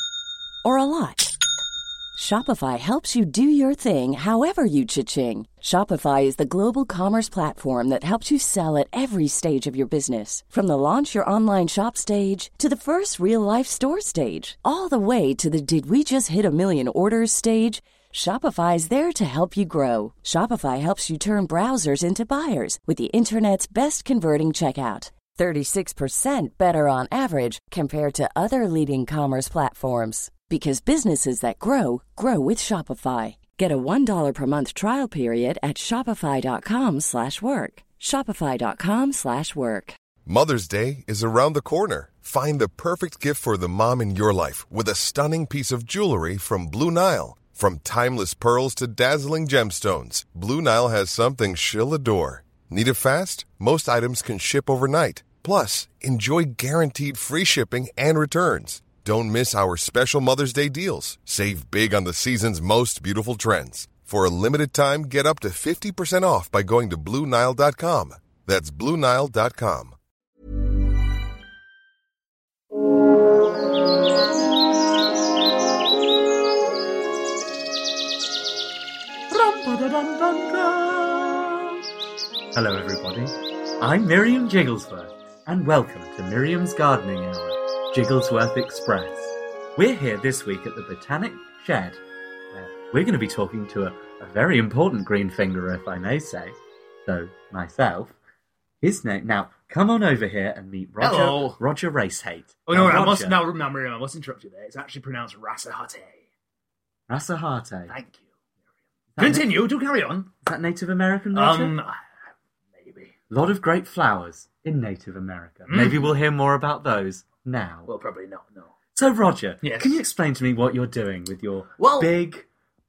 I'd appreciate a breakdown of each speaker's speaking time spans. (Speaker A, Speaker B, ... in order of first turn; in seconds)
Speaker A: 0.6-1.3, 2.1-40.0
Speaker B: 40.2-70.0
Speaker C: 79.3-81.8, 82.5-92.0, 92.5-98.2, 98.8-103.5, 107.1-107.9, 109.2-109.5, 110.4-111.8, 113.3-117.9, 118.9-122.5
Speaker D: 101.0-101.6, 102.7-106.2, 107.9-108.2, 109.2-110.3, 111.3-112.0, 112.7-113.2, 115.7-116.1, 117.8-118.7, 119.6-120.0, 121.8-122.1